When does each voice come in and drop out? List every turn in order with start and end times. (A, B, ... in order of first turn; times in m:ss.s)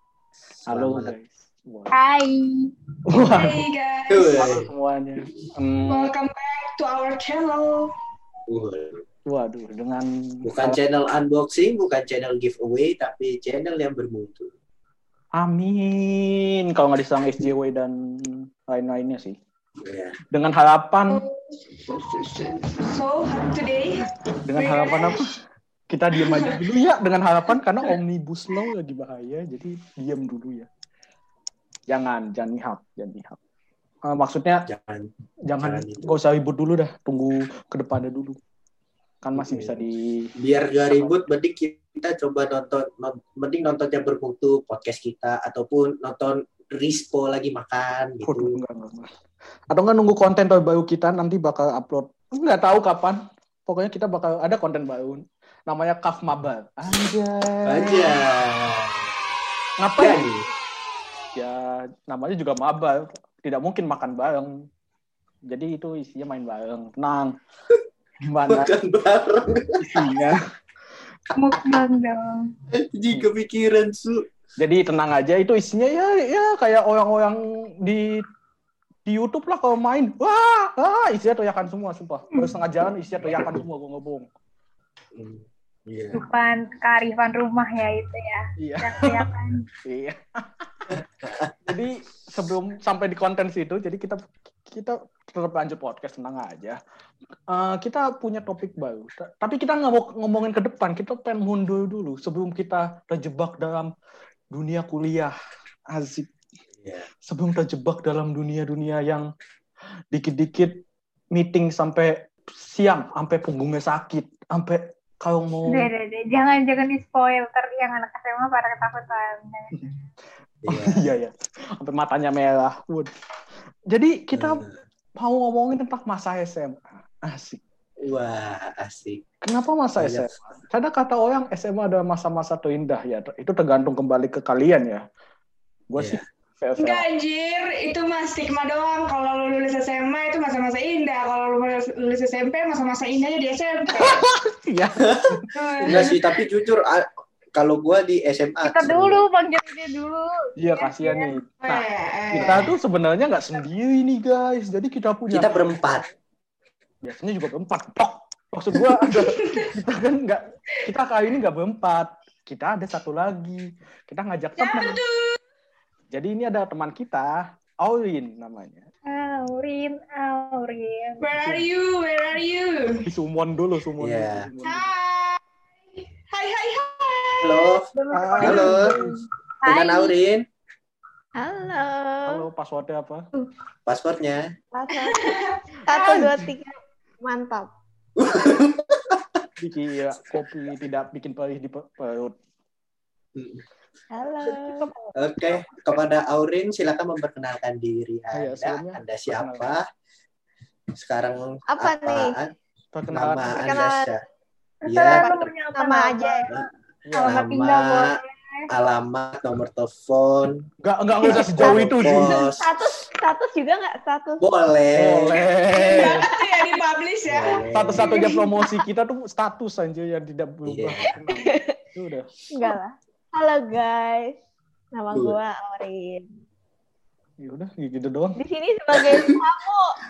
0:00.6-0:01.1 A
0:00.6-0:02.0 B
0:01.9-0:02.7 C
0:03.1-0:03.6 B
0:03.3-0:04.4 D
0:04.1-0:04.6 A
0:04.3-0:06.1 B
0:05.9-0:07.9 D
0:08.5-0:09.0 A
0:09.2-0:10.8 B
0:10.4-0:14.5 A
0:15.4-0:19.4 B
0:19.8-0:20.2 A
0:20.3-0:21.2 B
0:21.1-0:25.2 D
0:24.4-0:25.4 B
0:25.9-0:30.7 B
0:26.2-0:26.6 D
0:31.9-0:33.4 B
0:34.0-0:34.6 B
0:34.7-0:36.1 A
0:35.4-0:38.4 B
0:39.2-0:40.3 B
0:39.4-0:39.8 A
0:40.4-0:48.6 A
0:40.9-0:41.2 B
0:48.2-0:49.1 B
0:49.7-0:58.2 B
0:57.6-0:59.1 A
0:59.8-1:00.2 B
1:00.0-1:00.4 A
1:01.3-1:04.5 B
1:05.5-1:07.3 B
1:08.2-1:08.7 B
1:08.5-1:10.2 A
1:09.8-1:10.4 B
1:11.3-1:11.8 A
1:11.3-1:12.5 C
1:12.7-1:14.2 A
1:14.6-1:18.2 B
1:19.0-1:24.2 B
1:25.1-1:26.2 A
1:26.1-1:29.6 C
1:28.6-1:29.3 B
1:29.8-1:30.9 B
1:31.6-1:36.8 B
1:37.5-1:43.9 B
1:44.5-1:45.3 B
1:45.9-1:46.3 B
1:46.8-1:47.1 A
1:47.2-1:49.3 B
1:50.1-1:50.8 B
1:51.3-1:55.9 B
1:55.7-2:00.0 C
2:00.6-2:01.0 A
2:00.7-2:03.1 B
2:03.9-2:04.6 B
2:04.3-2:04.8 A
2:05.2-2:07.6 B
2:08.0-2:09.2 A
2:09.4-2:15.0 B
2:10.0-2:10.3 A
2:15.9-2:17.0 B
2:16.0-2:16.2 A
2:16.8-2:24.2 D
2:23.9-2:26.1 B
2:25.0-2:25.3 A
2:25.5-2:26.2 D
2:25.9-2:29.2 A
2:28.6-2:31.3 C
2:30.6-2:35.6 B
2:31.6-2:32.7 D
2:35.3-2:36.1 A
2:37.0-2:45.0 B
2:39.2-2:39.7 D
2:44.6-2:45.4 D
2:46.1-2:48.9 B
2:49.1-2:51.2 C
2:51.2-2:53.0 D
2:51.4-2:51.7 B
2:53.1-2:54.9 B
2:54.0-2:54.5 A
2:54.6-2:55.4 D
2:56.0-2:57.8 D
2:57.4-2:57.8 A
2:58.0-2:59.1 C
2:58.1-2:59.1 B
2:58.4-2:58.9 A
2:59.6-3:00.1 C
2:59.6-3:00.4 A
3:01.4-3:02.4 E
3:02.2-3:03.3 B
3:03.9-3:04.4 A
3:04.7-3:07.7 E
3:05.0-3:06.4 D
3:06.0-3:06.3 B
3:08.2-3:09.2 A
3:09.6-3:12.4 B
3:13.4-3:13.6 A
3:14.1-3:14.9 E
3:14.4-3:16.0 B
3:15.2-3:19.8 A
3:18.3-3:19.7 B
3:21.0-3:22.5 A
3:21.7-3:22.3 E
3:22.9-3:23.8 B
3:23.1-3:24.2 A
3:23.6-3:24.1 E
3:24.8-3:26.6 C
3:24.8-3:25.4 A
3:25.2-3:26.5 E
3:27.1-3:27.5 B
3:27.2-3:28.7 C
3:27.2-3:28.0 A
3:28.7-3:30.7 A
3:30.8-3:32.5 B
3:31.2-3:34.4 E
3:31.2-3:32.7 A
3:34.4-3:35.4 A
3:35.0-3:36.3 B
3:35.7-3:38.4 D
3:37.3-3:38.1 A
3:37.7-3:42.3 B
3:40.7-3:41.1 A
3:41.3-3:41.7 E
3:42.5-3:44.4 E
3:44.9-3:46.3 E
3:45.1-3:45.4 A
3:47.4-3:48.4 B
3:48.4-3:50.0 E